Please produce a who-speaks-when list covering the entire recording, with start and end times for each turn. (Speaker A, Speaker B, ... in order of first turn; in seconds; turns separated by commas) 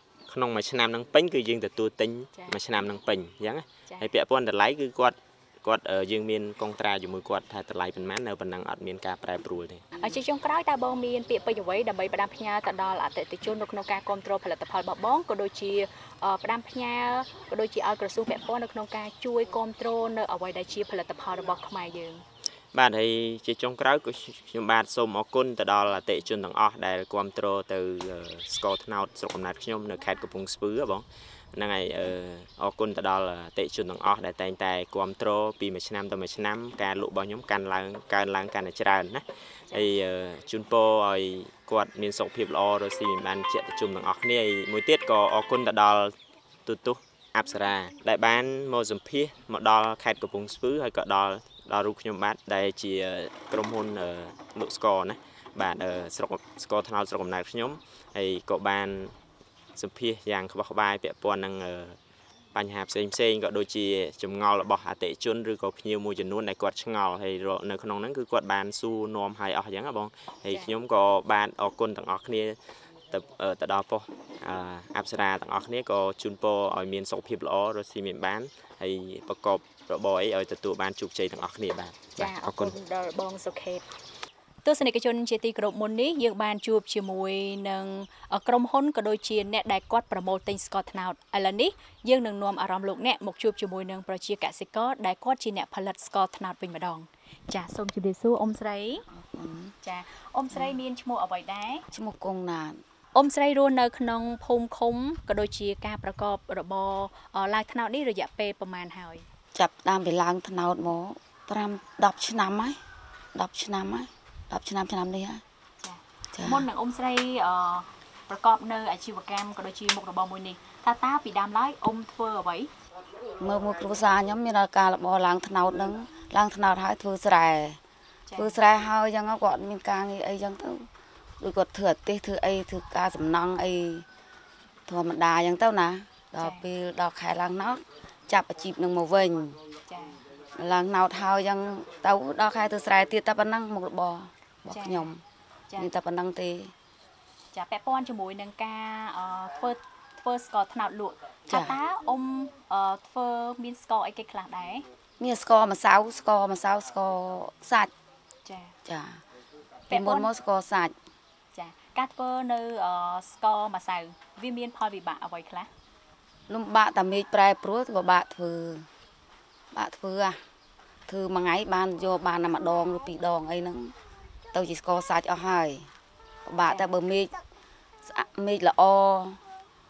Speaker A: 0.3-9.8, Speaker B: 10.0-22.2, Speaker A: 22.7-46.1, Speaker A: 46.7-59.1, Speaker A: 59.8-62.0, Speaker A: 62.5-72.6, Speaker A: 73.1-82.7, Speaker B: 82.2-83.8, Speaker B: 84.6-99.1, Speaker C: 99.1-99.8, Speaker B: 99.8-101.9, Speaker C: 101.9-102.8, Speaker B: 103.2-109.3, Speaker C: 109.5-112.8, Speaker C: 113.3-115.4, Speaker B: 115.8-122.7, Speaker C: 116.3-116.7, Speaker C: 123.4-127.8, Speaker B: 128.3-128.6, Speaker C: 128.4-130.9, Speaker C: 131.4-134.1, Speaker C: 134.9-139.6, Speaker B: 136.4-136.7, Speaker B: 139.9-140.2, Speaker C: 140.6-145.2, Speaker B: 144.7-145.1, Speaker C: 145.8-146.7, Speaker B: 147.5-154.8, Speaker C: 151.5-151.8, Speaker C: 155.2-157.9, Speaker B: 158.4-158.8, Speaker C: 158.8-159.2, Speaker B: 159.9-160.3, Speaker C: 159.9-161.0, Speaker B: 161.5-165.7, Speaker C: 166.5-168.9, Speaker C: 169.7-170.4, Speaker C: 171.1-173.9, Speaker C: 174.5-175.9, Speaker C: 176.5-177.3, Speaker B: 176.7-176.9, Speaker C: 178.0-179.4